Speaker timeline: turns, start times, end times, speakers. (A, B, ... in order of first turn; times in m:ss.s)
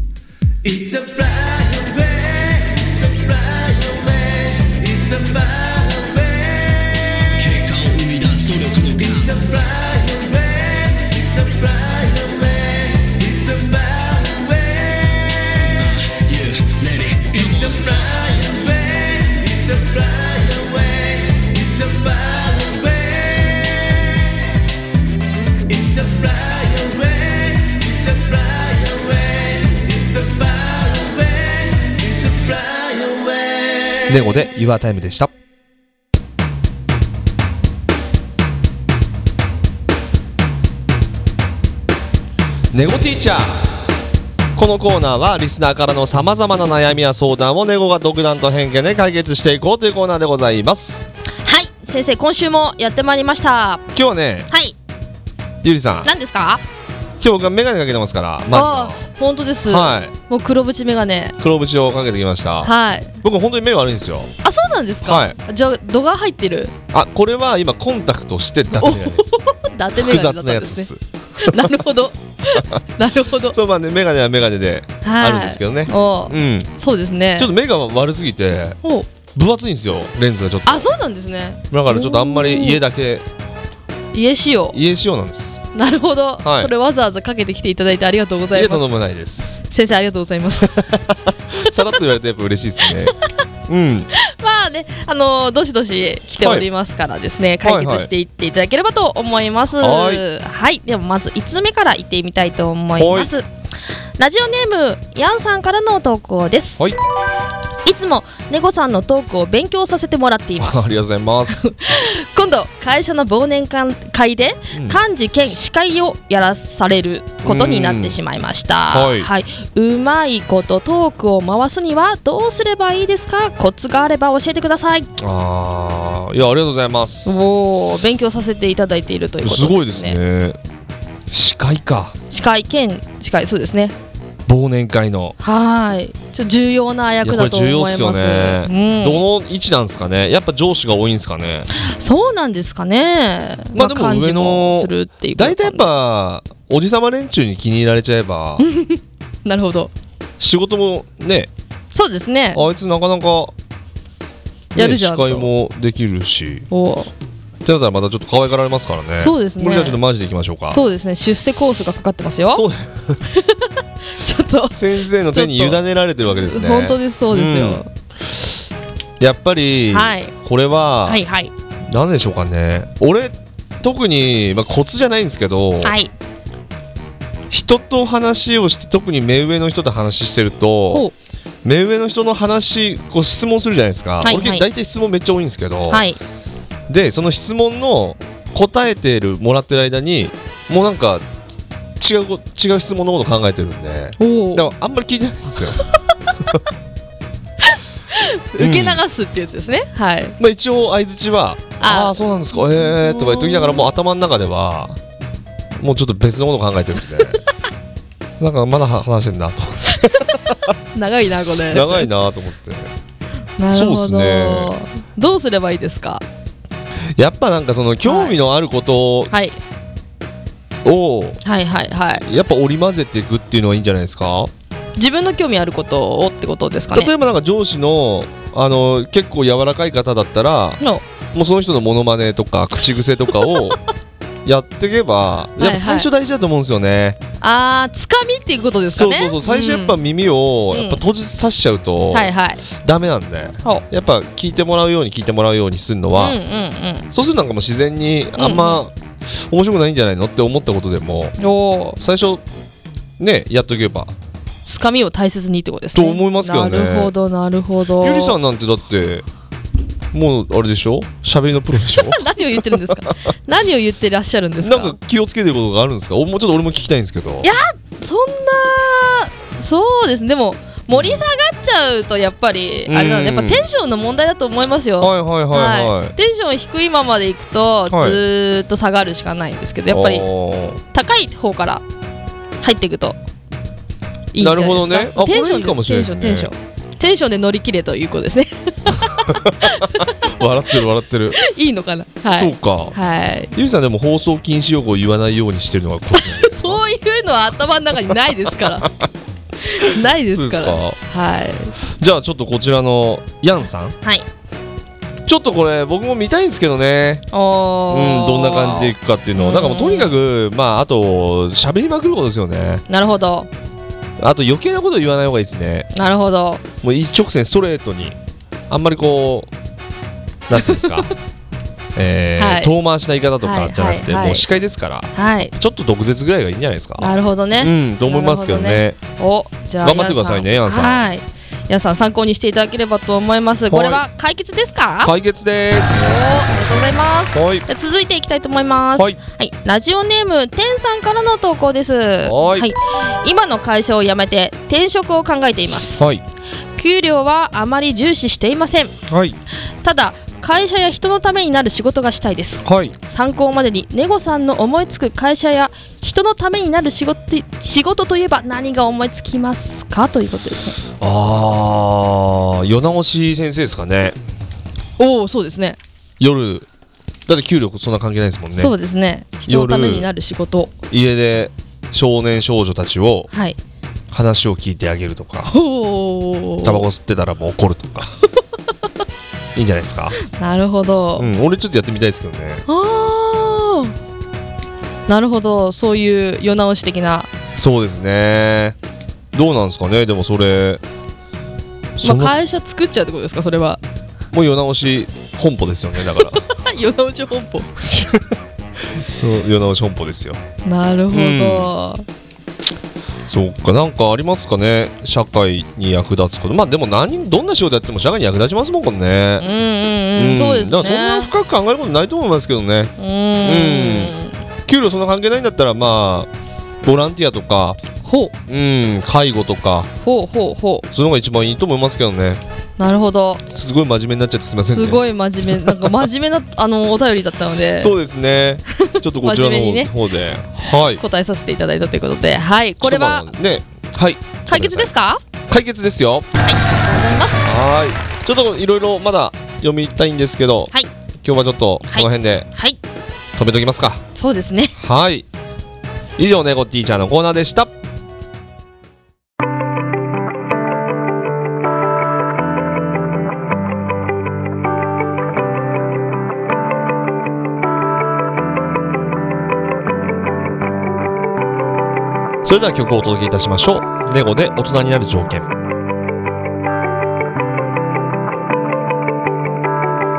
0:00.6-0:07.6 A
0:07.3-0:09.4 B
0:09.0-0:16.1 A
0:15.7-0:17.8 B
0:17.3-0:24.2 A
0:25.7-0:34.4 A
0:34.1-0:35.3 B
0:42.7-0:43.7 B
0:44.6-0:51.0 B
0:51.4-0:53.8 C
0:53.9-0:54.5 B
0:54.5-0:54.8 C
0:55.6-0:56.1 B
0:56.0-0:56.6 C
0:57.2-0:59.0 B
0:58.5-1:01.4 C
0:59.7-1:00.1 B
1:01.4-1:02.7 B
1:02.6-1:03.2 C
1:03.2-1:04.3 B
1:04.4-1:06.7 C
1:05.0-1:05.3 B
1:06.9-1:09.4 B
1:08.7-1:13.6 C
1:10.0-1:11.0 B
1:13.5-1:16.7 B
1:15.0-1:17.5 C
1:17.4-1:18.8 B
1:19.3-1:20.9 B
1:20.6-1:22.8 C
1:21.7-1:23.2 B
1:24.1-1:24.8 C
1:24.7-1:25.6 B
1:25.7-1:28.9 C
1:26.4-1:26.7 B
1:28.5-1:29.6 B
1:29.6-1:31.0 C
1:31.6-1:33.1 B
1:32.8-1:33.3 C
1:33.7-1:34.1 B
1:34.1-1:43.4 C
1:36.4-1:36.6 B
1:37.6-1:38.1 B
1:39.8-1:40.2 B
1:43.0-1:43.3 B
1:44.2-1:46.8 C
1:47.8-1:50.9 C
1:50.6-1:51.6 B
1:51.5-2:05.1 C
1:57.4-1:58.2 B
1:58.9-1:59.3 B
2:05.2-2:07.3 B
2:07.2-2:10.2 C
2:09.4-2:10.6 B
2:11.3-2:12.1 B
2:12.3-2:13.9 C
2:14.5-2:15.3 B
2:15.4-2:19.3 C
2:17.2-2:21.7 B
2:21.7-2:25.8 C
2:23.7-2:28.6 B
2:28.6-2:29.9 C
2:30.4-2:31.5 B
2:31.9-2:32.6 C
2:32.5-2:33.5 B
2:34.7-2:35.5 C
2:34.8-2:36.6 B
2:36.7-2:37.1 C
2:37.6-2:40.8 B
2:39.2-2:40.0 C
2:40.7-2:42.6 C
2:42.5-2:43.0 B
2:43.2-2:47.9 C
2:44.7-2:47.8 B
2:49.2-2:51.2 B
2:49.9-2:50.3 C
2:51.0-2:51.5 C
2:51.9-2:55.9 B
2:55.8-2:56.1 C
2:57.5-3:01.0 B
3:01.6-3:06.0 B
3:04.2-3:04.7 C
3:05.9-3:06.2 C
3:06.9-3:11.2 B
3:12.0-3:15.8 B
3:14.2-3:14.7 C
3:17.6-3:20.4 C
3:18.6-3:19.0 B
3:20.4-3:25.0 B
3:21.8-3:23.9 C
3:25.8-3:27.4 B
3:28.4-3:29.8 B
3:29.9-3:30.3 C
3:30.9-3:32.1 C
3:31.7-3:32.9 B
3:33.6-3:36.2 C
3:33.7-3:34.7 B
3:37.2-3:39.3 B
3:38.0-3:38.4 C
3:39.3-3:39.6 C
3:40.8-3:41.4 B
3:41.4-3:42.2 C
3:42.3-3:44.5 B
3:45.0-3:47.1 C
3:46.9-3:50.8 B
3:50.8-3:51.0 C
3:51.3-3:53.8 B
3:53.3-3:53.8 C
3:54.4-3:57.2 B
3:55.6-3:56.1 C
3:57.4-4:00.0 C
3:58.9-4:02.3 B
4:00.7-4:01.0 C
4:02.1-4:02.6 C
4:02.8-4:06.4 B
4:06.1-4:07.1 C
4:07.1-4:11.3 B
4:08.4-4:08.8 C
4:11.4-4:12.0 C
4:12.0-4:12.4 B
4:13.2-4:14.1 B
4:14.6-4:18.4 C
4:15.9-4:17.1 B
4:18.0-4:19.2 B
4:20.1-4:22.2 B
4:21.8-4:25.0 C
4:24.6-4:27.4 B
4:27.4-4:40.3 C
4:32.9-4:33.6 B
4:35.0-4:36.1 B
4:37.9-4:38.2 B
4:39.9-4:40.8 B
4:40.9-4:41.8 C
4:42.6-4:43.2 C
4:44.3-4:50.7 C
4:44.4-4:46.5 B
4:50.3-4:51.3 B
4:51.3-4:53.5 C
4:52.3-4:52.9 B
4:53.6-4:56.8 B
4:56.1-4:58.9 C
4:59.6-5:01.7 C
5:00.3-5:01.0 B
5:02.0-5:03.9 B
5:05.3-5:07.2 B
5:07.3-5:10.2 C
5:07.9-5:12.8 B
5:12.9-5:13.5 C
5:14.2-5:15.8 B
5:15.9-5:16.6 C
5:16.8-5:18.2 B
5:18.7-5:19.5 B
5:20.5-5:21.1 B
5:20.5-5:21.1 C
5:22.0-5:27.1 B
5:22.4-5:22.7 C
5:23.4-5:24.4 C
5:25.1-5:25.5 C
5:27.0-5:35.1 C
5:27.6-5:29.0 B
5:29.8-5:31.0 B
5:33.7-5:34.0 B
5:35.0-5:36.0 B
5:35.9-5:46.1 C
5:37.3-5:37.6 B
5:42.2-5:42.7 B
5:46.8-5:48.9 C
5:49.1-5:49.4 B
5:49.8-6:00.8 C
5:52.6-5:52.9 B
6:01.0-6:04.2 B
6:05.0-6:05.8 C
6:06.2-6:06.6 B
6:07.3-6:08.7 B
6:08.5-6:10.7 C
6:09.5-6:10.0 B
6:10.9-6:13.3 B
6:13.3-6:13.6 C
6:14.1-6:15.5 B
6:15.4-6:16.9 C
6:16.6-6:18.1 B
6:19.5-6:20.1 B
6:20.2-6:21.3 C
6:21.2-6:22.6 B
6:22.7-6:23.9 C
6:25.1-6:27.3 C
6:27.6-6:28.7 B
6:29.3-6:30.8 B
6:32.0-6:32.3 B
6:32.0-6:33.8 C
6:34.3-6:36.3 B
6:36.0-6:38.1 C
6:39.2-6:40.4 B
6:40.6-6:42.0 C
6:41.1-6:41.7 B
6:43.3-6:49.4 B
6:49.4-6:51.3 C
6:50.2-6:52.9 B
6:53.0-6:54.4 C
6:53.4-6:54.1 B
6:54.7-6:56.3 B
6:56.8-6:57.8 B
6:58.0-6:58.3 C
6:58.5-6:59.9 B
7:00.0-7:00.9 C
7:00.9-7:02.4 B
7:02.8-7:03.4 C
7:03.5-7:05.0 B
7:04.6-7:08.0 C
7:07.8-7:11.0 B
7:08.8-7:10.0 C
7:11.0-7:13.3 C
7:12.8-7:14.9 B
7:14.4-7:15.2 C
7:15.5-7:16.2 B
7:16.4-7:17.5 C
7:17.5-7:20.7 B
7:21.2-7:22.5 B
7:21.9-7:22.8 C
7:23.4-7:24.0 B
7:24.1-7:24.7 C
7:24.8-7:25.2 B
7:26.2-7:27.7 B
7:42.4-7:45.4 B